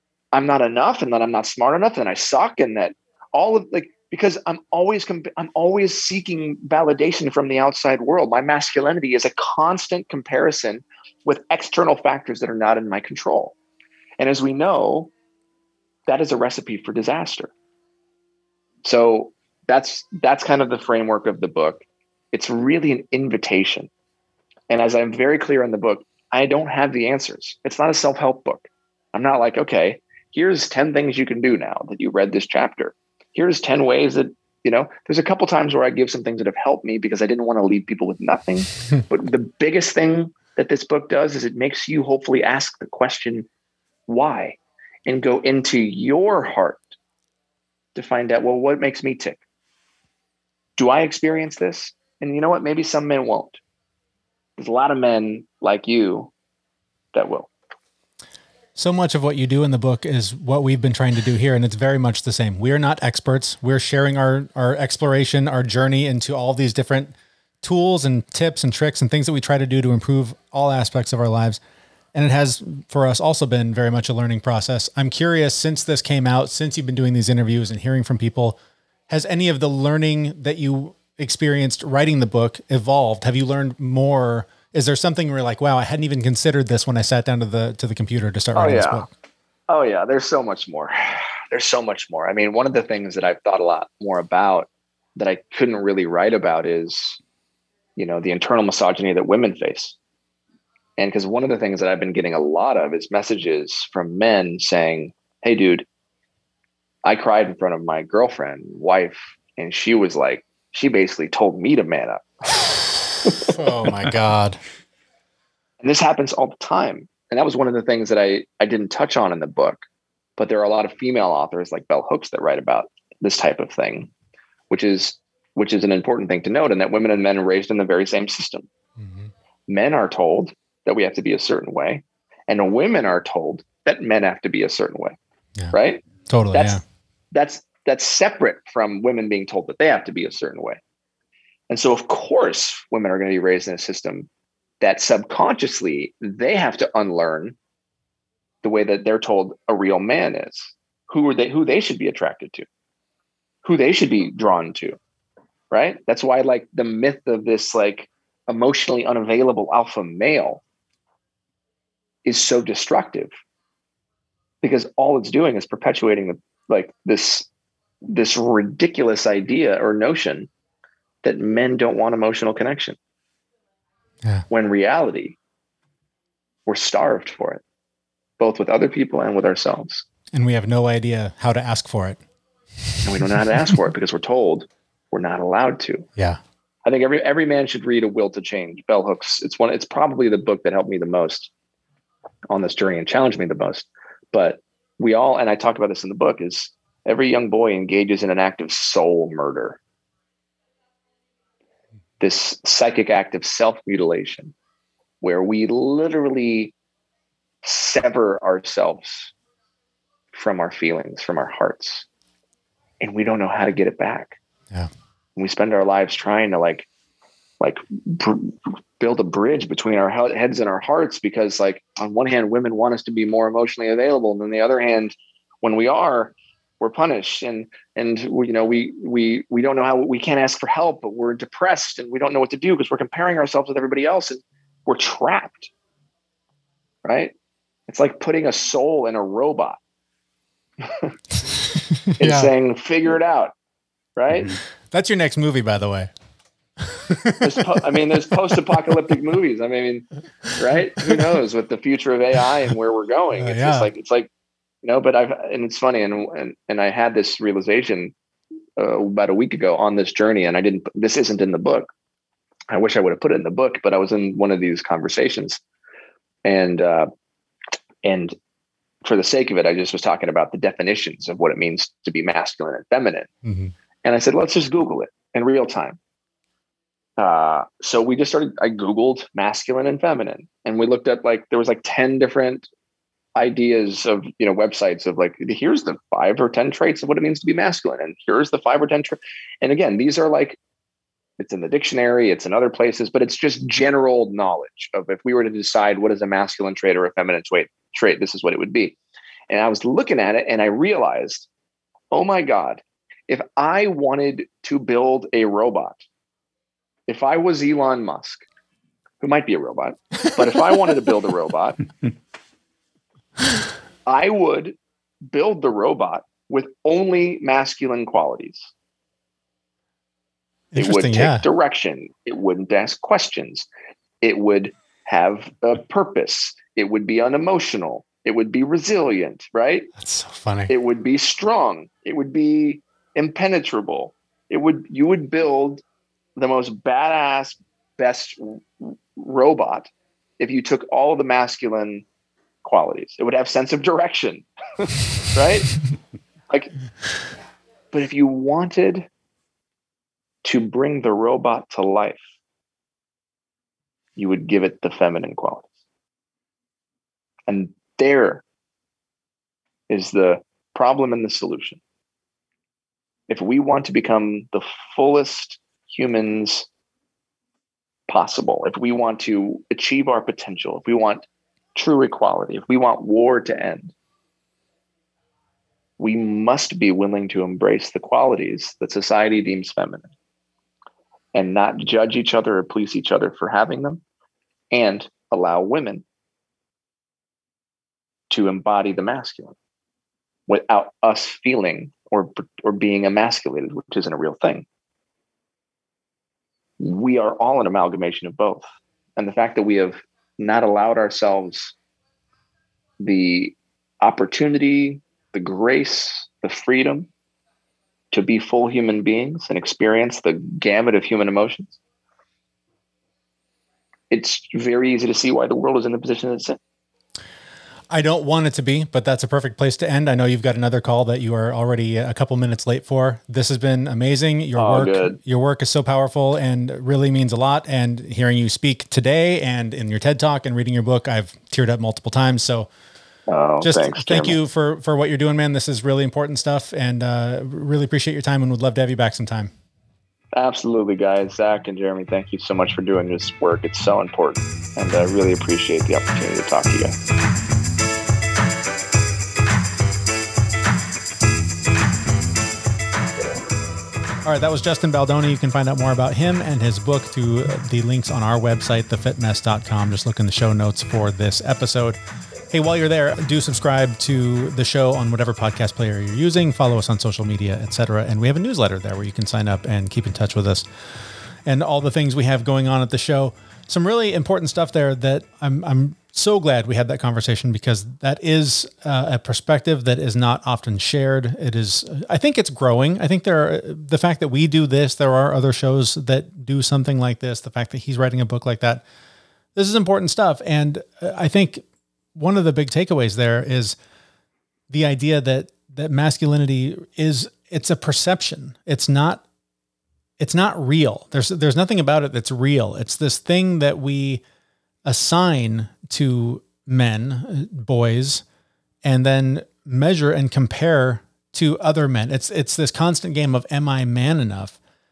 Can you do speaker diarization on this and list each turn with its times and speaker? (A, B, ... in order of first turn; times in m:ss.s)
0:00.3-0:13.6 A
0:14.2-0:15.1 A
0:16.1-0:17.5 A
0:18.8-0:23.9 A
0:24.7-0:43.5 A
0:44.1-0:46.8 A
0:47.9-0:49.4 A
0:50.8-0:53.6 A
0:54.6-0:56.3 A
0:57.1-0:57.5 A
0:58.8-1:11.6 B
1:12.1-1:18.6 B
1:19.1-1:29.1 B
1:28.5-1:29.1 A
1:29.7-1:37.2 A
1:38.0-1:40.0 A
1:41.0-1:45.8 A
1:47.0-1:53.5 A
1:53.4-1:54.6 B
1:55.8-1:59.8 A
2:00.4-2:04.1 A
2:04.7-2:08.7 A
2:09.0-2:09.3 B
2:09.7-2:15.2 A
2:15.7-2:16.8 A
2:16.3-2:16.8 B
2:17.3-2:20.8 A
2:21.7-2:24.3 A
2:24.8-2:27.6 A
2:28.6-2:32.6 A
2:33.6-2:35.0 A
2:35.7-2:40.6 A
2:42.2-2:43.3 A
2:44.6-2:47.5 A
2:48.0-2:50.5 A
2:51.2-2:53.0 A
2:54.5-2:55.4 A
2:56.7-2:57.6 A
2:58.4-3:00.0 A
3:00.3-3:02.2 B
3:02.8-3:03.8 B
3:03.0-3:06.1 A
3:06.8-3:11.5 A
3:12.5-3:19.8 A
3:22.2-3:24.5 A
3:25.2-3:26.7 A
3:27.6-3:29.3 A
3:30.3-3:32.0 A
3:33.0-3:34.4 A
3:35.4-3:36.9 A
3:37.6-3:55.7 A
3:57.0-3:57.3 A
3:57.9-3:59.8 A
4:00.8-4:01.1 A
4:01.6-4:02.5 B
4:02.2-4:03.5 A
4:04.2-4:04.5 A
4:04.9-4:06.1 B
4:06.8-4:09.0 B
4:07.4-4:14.3 A
4:13.4-4:13.9 B
4:14.8-4:18.1 A
4:18.8-4:21.9 A
4:22.7-4:25.6 A
4:26.4-4:27.1 A
4:28.0-4:28.4 A
4:29.0-4:33.3 A
4:33.4-4:33.7 B
4:34.0-4:36.0 A
4:37.2-4:42.7 A
4:43.3-4:50.6 A
4:51.4-4:59.0 A
4:59.5-5:01.5 A
5:02.1-5:06.0 A
5:07.1-5:08.4 A
5:09.2-5:11.8 A
5:14.0-5:18.7 A
5:20.7-5:21.4 B
5:20.8-5:23.7 A
5:24.2-5:29.9 A
5:30.0-5:30.7 B
5:30.7-5:35.8 A
5:36.4-5:42.0 A
5:42.6-5:45.8 A
5:47.9-5:49.1 A
5:50.4-5:52.2 A
5:54.2-5:55.6 A
5:57.5-5:58.4 A
5:59.9-6:01.8 A
6:03.3-6:06.7 A
6:08.1-6:13.9 A
6:16.0-6:20.1 A
6:21.3-6:24.0 A
6:24.7-6:26.0 A
6:28.3-6:29.5 A
6:30.5-6:34.6 A
6:36.8-6:38.6 A
6:39.2-6:41.7 A
6:43.0-6:47.1 A
6:48.1-6:51.8 A
6:54.1-6:56.6 A
6:57.9-7:12.7 B
7:04.5-7:05.2 A
7:13.3-7:14.4 A
7:13.6-7:19.5 B
7:20.3-7:26.9 A
7:34.2-7:42.0 B
7:42.5-7:50.6 B
7:51.4-8:08.8 B
8:09.5-8:11.6 B
8:12.1-8:13.8 B
8:14.7-8:19.2 B
8:20.2-8:24.2 B
8:24.8-8:28.2 B
8:28.8-8:34.6 B